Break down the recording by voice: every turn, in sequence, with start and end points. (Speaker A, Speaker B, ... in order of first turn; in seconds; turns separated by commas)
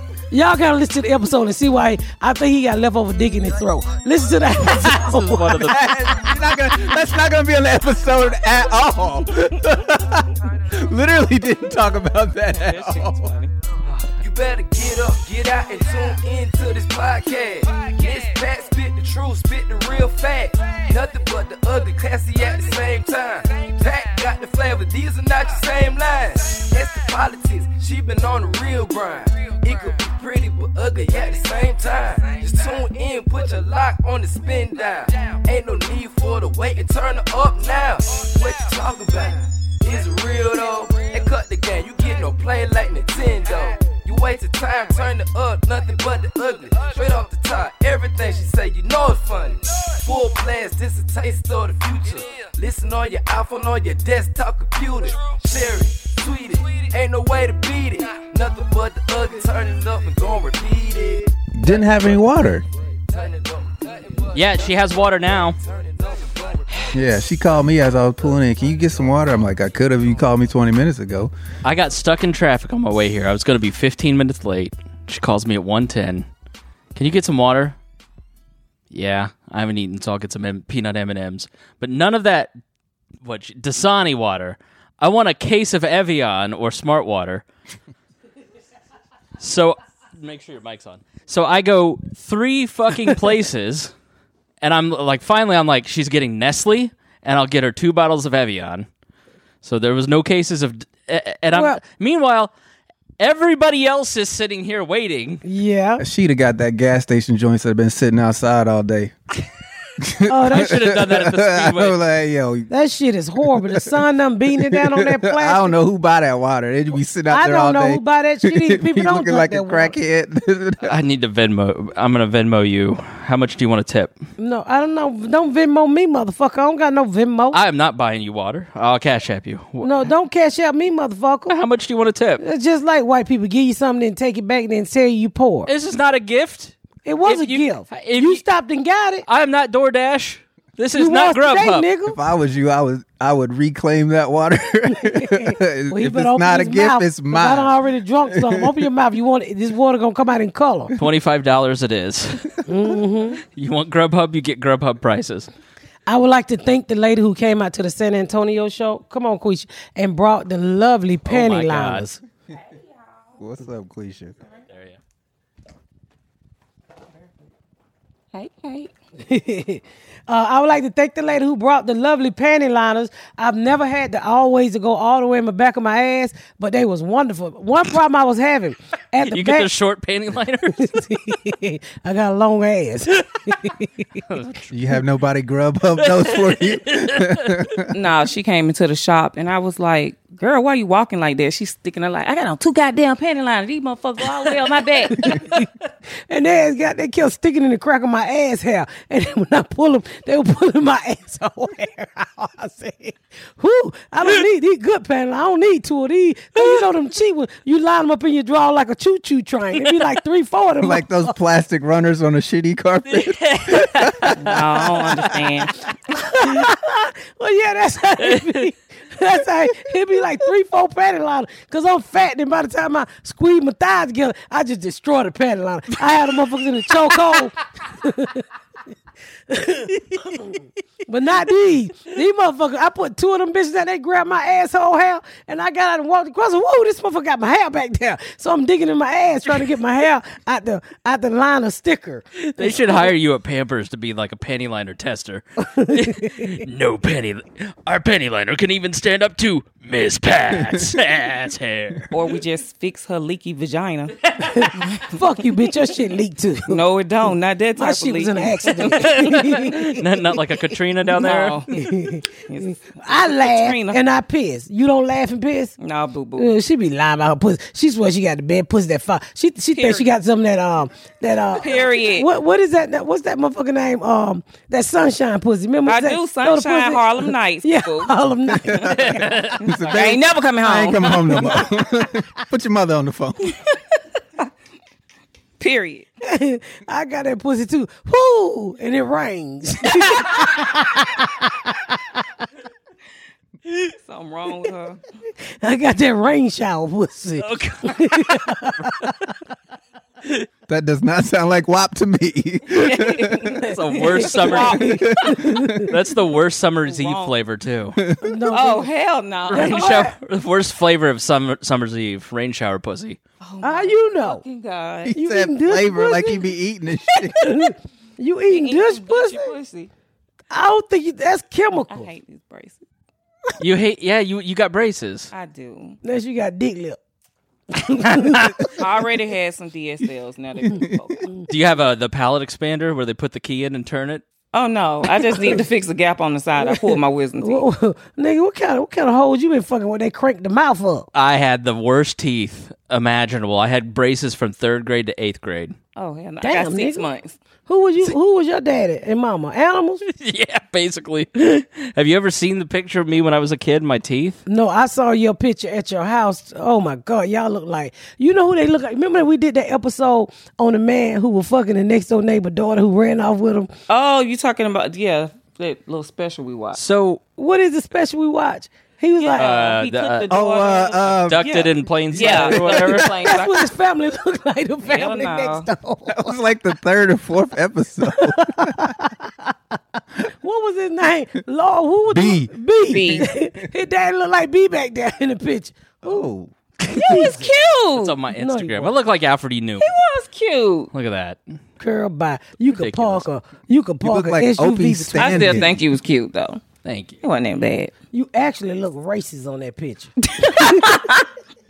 Speaker A: 0.3-5.8, Speaker B: 4.6-5.9, Speaker C: 5.6-13.3, Speaker D: 12.5-13.5, Speaker E: 14.2-62.3, Speaker C: 61.5-62.6, Speaker E: 63.1-67.0, Speaker B: 64.3-65.6, Speaker C: 66.9-71.3, Speaker B: 71.6-76.3, Speaker B: 77.0-77.8, Speaker B: 78.9-82.5, Speaker B: 83.2-87.5, Speaker B: 89.4-93.9, Speaker B: 94.6-98.9, Speaker B: 99.6-102.5, Speaker A: 101.5-101.8, Speaker B: 103.2-105.5, Speaker A: 105.5-106.0, Speaker C: 106.0-109.1, Speaker C: 110.0-112.7, Speaker A: 110.3-110.8, Speaker B: 110.5-112.0, Speaker A: 112.7-115.7, Speaker C: 113.4-114.0, Speaker C: 114.6-120.9, Speaker A: 117.3-120.0, Speaker B: 120.8-124.2, Speaker A: 124.4-127.6, Speaker B: 127.5-130.0, Speaker A: 129.8-131.6, Speaker B: 131.5-132.4, Speaker A: 132.4-135.7, Speaker B: 135.7-138.4, Speaker A: 137.1-139.2, Speaker B: 139.3-141.9, Speaker A: 141.0-142.2, Speaker C: 142.1-147.8, Speaker A: 145.0-150.9, Speaker C: 148.3-148.8, Speaker B: 151.0-152.7, Speaker A: 152.7-153.4, Speaker B: 153.5-155.5, Speaker A: 156.1-162.2, Speaker B: 161.3-162.1, Speaker C: 163.4-164.4, Speaker B: 164.7-165.0, Speaker D: 168.3-168.9, Speaker A: 169.2-179.7, Speaker B: 179.2-181.1, Speaker A: 180.8-184.1, Speaker B: 184.3-184.7, Speaker C: 184.7-187.9, Speaker B: 186.0-187.8, Speaker D: 187.9-195.3, Speaker A: 195.2-195.7, Speaker A: 196.3-211.3, Speaker C: 210.8-215.4, Speaker B: 213.1-214.5, Speaker D: 214.4-215.8, Speaker A: 216.1-228.4, Speaker B: 218.2-218.6, Speaker B: 227.1-227.4, Speaker A: 229.5-243.1, Speaker B: 230.1-230.4, Speaker B: 242.4-252.1, Speaker A: 245.6-246.6, Speaker C: 250.6-250.9, Speaker D: 252.1-255.1, Speaker B: 254.3-254.7, Speaker A: 254.4-256.8, Speaker D: 256.7-259.4, Speaker A: 257.8-260.7, Speaker B: 258.9-261.7, Speaker D: 261.2-264.0, Speaker A: 261.7-265.8, Speaker D: 265.8-266.5, Speaker A: 266.4-279.4, Speaker D: 269.7-270.1, Speaker D: 271.6-272.3, Speaker D: 275.9-278.1, Speaker C: 278.5-283.6, Speaker B: 279.1-279.6, Speaker D: 279.6-281.7, Speaker D: 285.6-286.1, Speaker A: 286.2-292.0, Speaker D: 293.9-295.0, Speaker A: 295.6-299.1, Speaker B: 297.4-299.1, Speaker C: 300.7-303.6, Speaker D: 302.9-305.5, Speaker B: 303.4-305.0, Speaker A: 304.2-305.9, Speaker C: 305.1-305.9, Speaker B: 305.9-308.0, Speaker D: 306.9-307.3, Speaker C: 308.0-308.5, Speaker A: 308.2-308.9, Speaker D: 308.5-310.0, Speaker B: 309.5-313.2, Speaker A: 309.5-310.1, Speaker D: 313.4-315.2, Speaker A: 313.6-314.4, Speaker C: 315.1-317.5, Speaker A: 315.1-316.5, Speaker A: 317.4-319.5, Speaker D: 318.5-319.9, Speaker A: 320.5-322.1, Speaker D: 321.9-322.8, Speaker B: 323.6-325.3, Speaker D: 325.3-326.0, Speaker A: 326.0-327.0, Speaker A: 327.7-328.7, Speaker D: 328.8-331.3, Speaker C: 330.7-331.1, Speaker B: 331.5-334.2, Speaker D: 334.5-337.6, Speaker A: 335.3-335.6, Speaker A: 336.6-341.1, Speaker B: 341.1-345.8, Speaker D: 346.0-347.4, Speaker A: 346.4-347.1, Speaker A: 347.7-350.0, Speaker B: 350.0-354.4, Speaker A: 354.5-363.7, Speaker D: 363.9-366.8, Speaker B: 366.8-367.2, Speaker A: 367.4-369.5, Speaker D: 369.2-373.7, Speaker B: 369.4-370.3, Speaker C: 370.3-372.9, Speaker B: 371.3-373.1, Speaker A: 372.9-376.4, Speaker D: 374.9-375.7, Speaker C: 376.1-378.9, Speaker A: 378.1-379.3, Speaker A: 380.2-386.3, Speaker C: 382.1-383.3, Speaker D: 382.9-383.3, Speaker C: 386.0-386.5, Speaker A: 386.9-387.5, Speaker D: 386.9-388.2, Speaker B: 388.0-389.9, Speaker A: 388.3-388.9, Speaker D: 389.8-390.9, Speaker B: 390.9-391.4, Speaker A: 391.8-395.7, Speaker B: 392.7-393.2, Speaker C: 394.0-395.8, Speaker D: 395.1-396.6, Speaker B: 396.8-397.2, Speaker D: 397.2-397.9, Speaker A: 398.1-401.0, Speaker D: 400.3-401.2